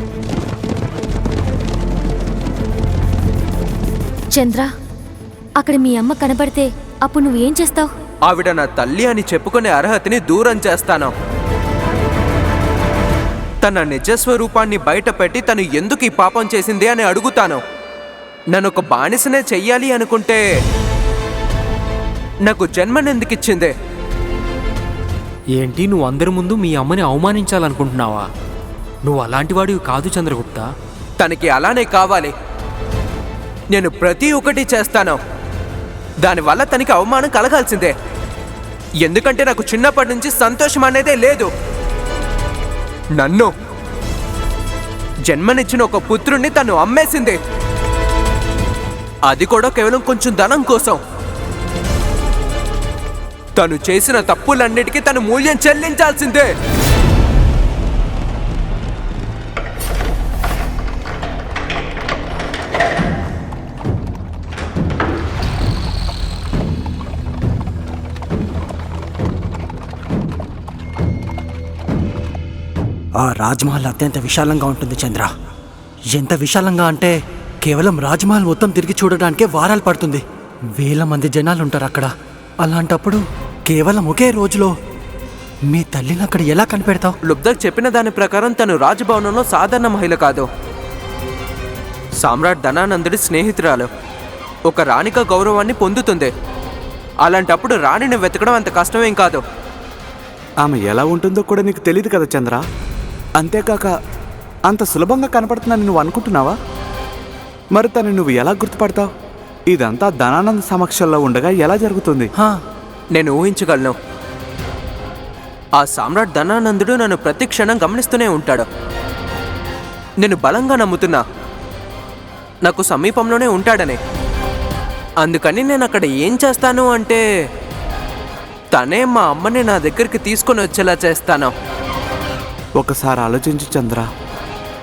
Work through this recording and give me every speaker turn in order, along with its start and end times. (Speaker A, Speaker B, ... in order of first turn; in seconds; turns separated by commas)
Speaker A: 4.3-4.7, Speaker A: 5.6-7.9, Speaker B: 8.3-11.1, Speaker B: 13.6-17.6, Speaker B: 18.5-20.4, Speaker B: 22.5-23.7, Speaker C: 25.6-28.3, Speaker C: 29.0-30.6, Speaker B: 31.2-32.3, Speaker B: 33.7-35.2, Speaker B: 36.2-37.9, Speaker B: 39.0-41.5, Speaker B: 43.2-43.5, Speaker B: 45.3-47.3, Speaker B: 49.3-51.0, Speaker B: 53.6-56.4, Speaker D: 73.1-75.3, Speaker D: 76.1-84.7, Speaker D: 85.6-87.1, Speaker B: 87.3-90.4, Speaker B: 92.2-93.9, Speaker B: 94.7-96.3, Speaker B: 97.2-99.4, Speaker E: 100.6-102.6, Speaker E: 103.4-103.9, Speaker E: 104.7-106.5, Speaker E: 107.7-109.1, Speaker E: 109.7-112.3, Speaker B: 113.2-113.9, Speaker B: 115.8-118.6, Speaker B: 120.2-121.2, Speaker B: 122.7-124.0, Speaker B: 125.2-127.2, Speaker B: 128.7-131.5, Speaker E: 132.8-134.1